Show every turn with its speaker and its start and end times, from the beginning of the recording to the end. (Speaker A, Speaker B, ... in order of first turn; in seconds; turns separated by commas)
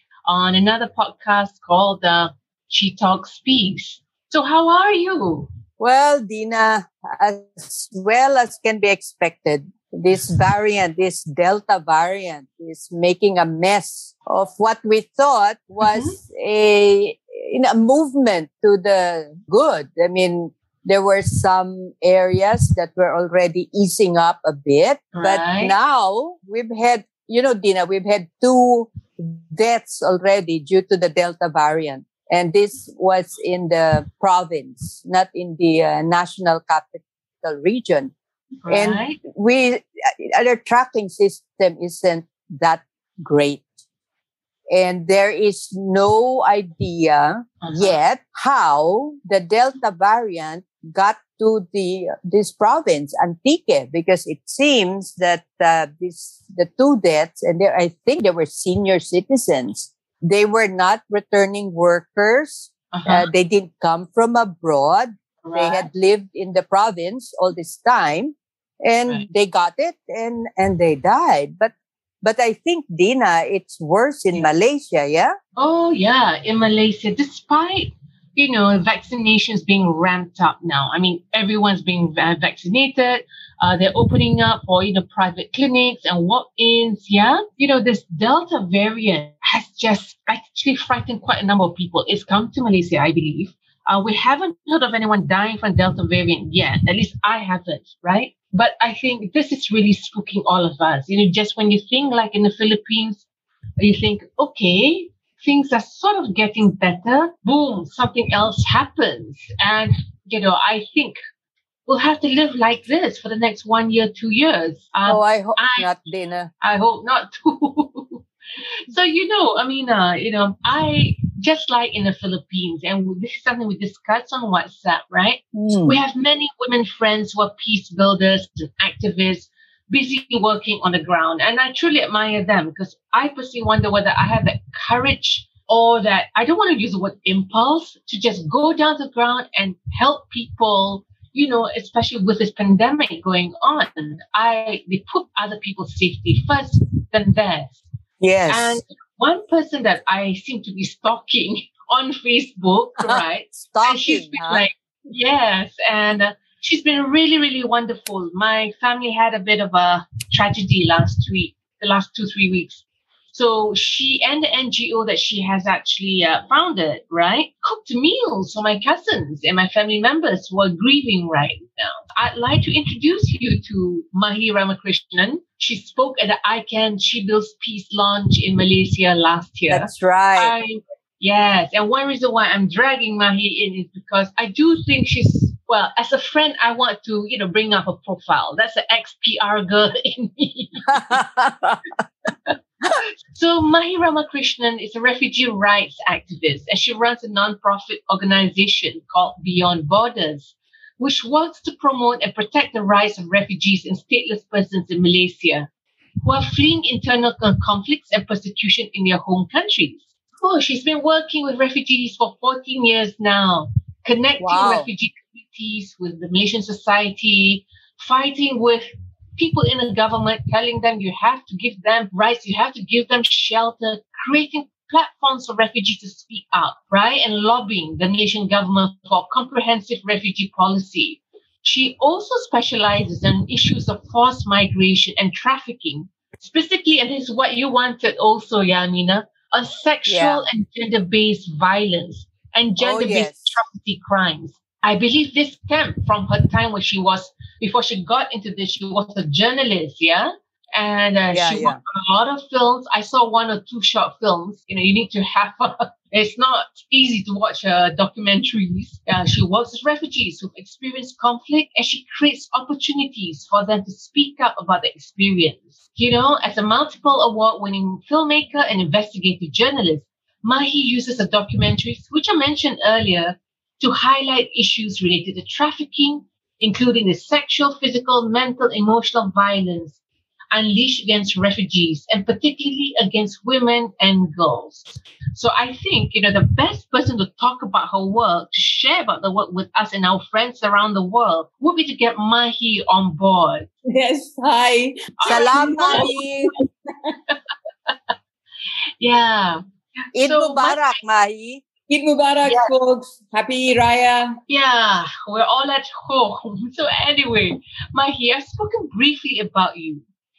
Speaker A: 0.2-5.5, Speaker B: 5.8-38.1, Speaker A: 15.8-16.1, Speaker A: 25.1-25.7, Speaker A: 38.6-39.2, Speaker B: 38.7-43.7, Speaker B: 44.7-75.3, Speaker A: 47.6-48.0, Speaker A: 62.9-63.3, Speaker A: 65.4-65.9, Speaker A: 75.6-103.2, Speaker A: 103.8-111.2, Speaker A: 111.9-115.9, Speaker B: 115.0-116.5, Speaker A: 116.6-118.2, Speaker A: 118.9-147.8, Speaker B: 125.5-126.0, Speaker B: 148.2-148.8, Speaker A: 148.5-191.2, Speaker B: 153.0-154.7, Speaker B: 179.7-180.5, Speaker B: 190.9-191.8, Speaker A: 193.3-205.7, Speaker A: 206.2-280.0, Speaker B: 214.4-214.9, Speaker B: 240.1-240.4, Speaker B: 242.8-243.5, Speaker B: 251.3-251.8, Speaker A: 280.5-293.7, Speaker C: 293.9-296.2, Speaker A: 295.2-296.1, Speaker B: 295.2-296.5, Speaker A: 299.0-300.9, Speaker B: 300.1-301.6, Speaker C: 301.9-304.4, Speaker A: 304.5-310.0